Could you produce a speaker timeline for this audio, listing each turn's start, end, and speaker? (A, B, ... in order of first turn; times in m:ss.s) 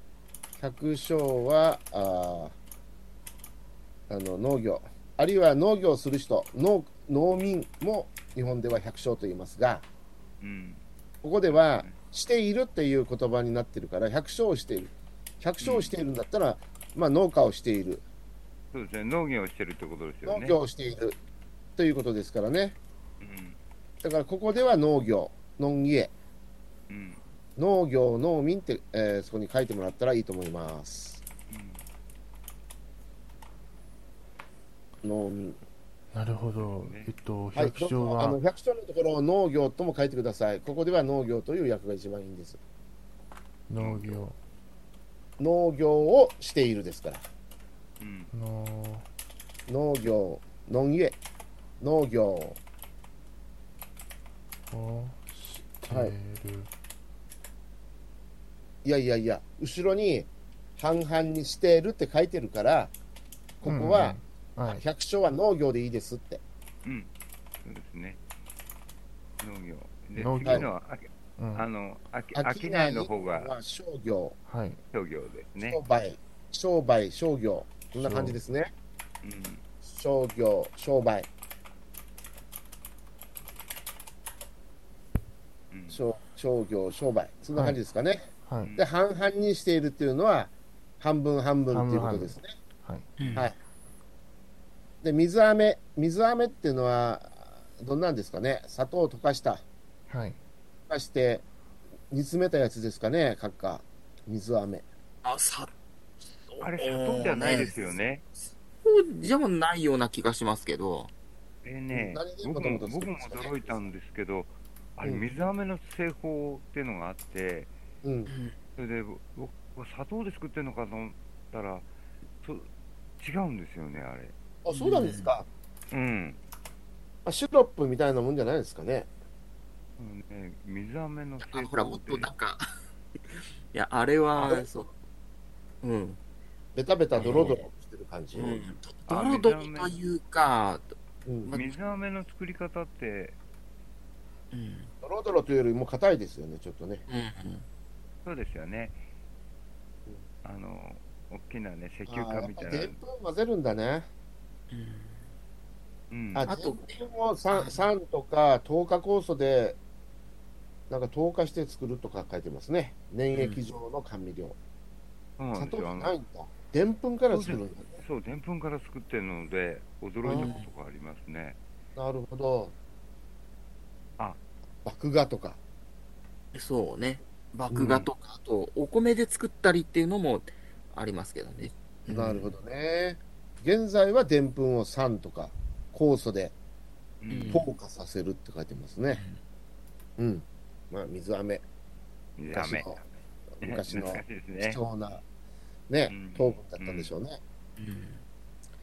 0:00.6-0:02.6 A
0:04.1-0:09.9 A
0:10.4-0:10.8 B
0:11.2-0:18.0 A
0:11.5-0:12.0 B
0:15.6-0:16.0 B
0:18.7-0:20.6 B
0:20.2-0:21.2 A
0:21.8-0:22.8 A
0:23.2-0:23.6 B
0:24.0-0:26.1 A
0:26.9-0:27.2 B
0:27.6-0:31.2 A
0:31.5-0:31.8 B
0:35.0-0:35.6 A
0:36.1-0:38.4 C
0:36.6-0:37.1 B
0:37.6-0:42.6 A
0:43.7-0:44.4 C
0:43.8-0:44.2 B
0:45.4-0:47.3 A
0:48.0-0:48.3 B
0:48.3-0:49.1 C
0:49.7-0:51.2 A
0:51.8-0:52.6 A
0:54.7-0:56.7 C
0:55.9-0:56.2 A
0:58.8-1:02.9 A
1:03.6-1:06.4 A
1:03.6-1:04.8 C
1:06.8-1:07.1 B
1:07.6-1:08.2 B
1:09.4-1:13.5 B
1:10.2-1:10.7 C
1:11.4-1:11.6 C
1:12.4-1:14.4 A
1:14.5-1:14.8 C
1:14.9-1:15.8 B
1:15.7-1:18.7 A
1:18.0-1:18.4 C
1:19.2-1:19.6 B
1:19.8-1:21.3 A
1:25.7-1:26.0 B
1:25.9-1:32.5 A
1:27.5-1:27.8 C
1:28.5-1:28.7 C
1:31.7-1:33.1 C
1:33.2-1:33.5 D
1:35.0-1:39.6 A
1:40.1-1:40.4 C
1:40.9-1:41.5 A
1:42.1-1:44.8 A
1:45.2-1:45.7 D
1:46.5-1:48.0 D
1:46.6-1:48.2 B
1:47.4-1:47.8 A
1:48.8-1:51.1 D
1:51.6-1:57.7 B
1:51.9-1:53.9 A
1:58.0-1:58.3 A
1:58.3-1:58.6 D
1:58.8-2:01.9 B
2:02.4-2:02.7 B
2:03.2-2:04.3 B
2:04.6-2:05.5 A
2:04.7-2:05.3 D
2:05.9-2:06.4 B
2:07.2-2:09.1 A
2:10.0-2:12.3 B
2:11.4-2:12.6 D
2:13.3-2:14.9 D
2:14.4-2:14.7 A
2:15.8-2:16.2 D
2:16.8-2:18.6 A
2:17.2-2:17.7 D
2:17.2-2:17.5 B
2:18.4-2:20.9 D
2:19.1-2:20.0 B
2:21.3-2:21.5 A
2:21.4-2:21.8 D
2:21.5-2:23.4 B
2:24.5-2:24.9 D
2:25.0-2:27.0 A
2:27.1-2:27.6 D
2:28.2-2:29.0 B
2:30.4-2:33.0 B
2:32.1-2:34.1 A
2:34.7-2:35.2 D
2:36.1-2:36.5 B
2:36.4-2:39.8 A
2:36.5-2:37.0 D
2:37.5-2:37.8 D
2:40.9-2:44.6 A
2:43.3-2:43.6 D
2:45.4-2:46.1 B
2:45.5-2:48.0 A
2:47.3-2:51.6 B
2:50.2-2:50.5 A
2:50.3-2:50.7 D
2:52.0-2:52.8 A
2:54.8-2:55.6 A
2:56.5-3:02.5 D
2:57.7-2:58.1 A
3:02.1-3:06.5 A
3:07.2-3:07.6 B
3:07.3-3:07.7 D
3:07.5-3:09.2 A
3:09.1-3:09.4 D
3:10.2-3:11.6 A
3:12.4-3:13.0 B
3:12.5-3:13.0 A
3:13.6-3:15.2 A
3:13.6-3:14.8 B
3:15.9-3:17.4 A
3:16.1-3:17.1 B
3:17.8-3:18.2 D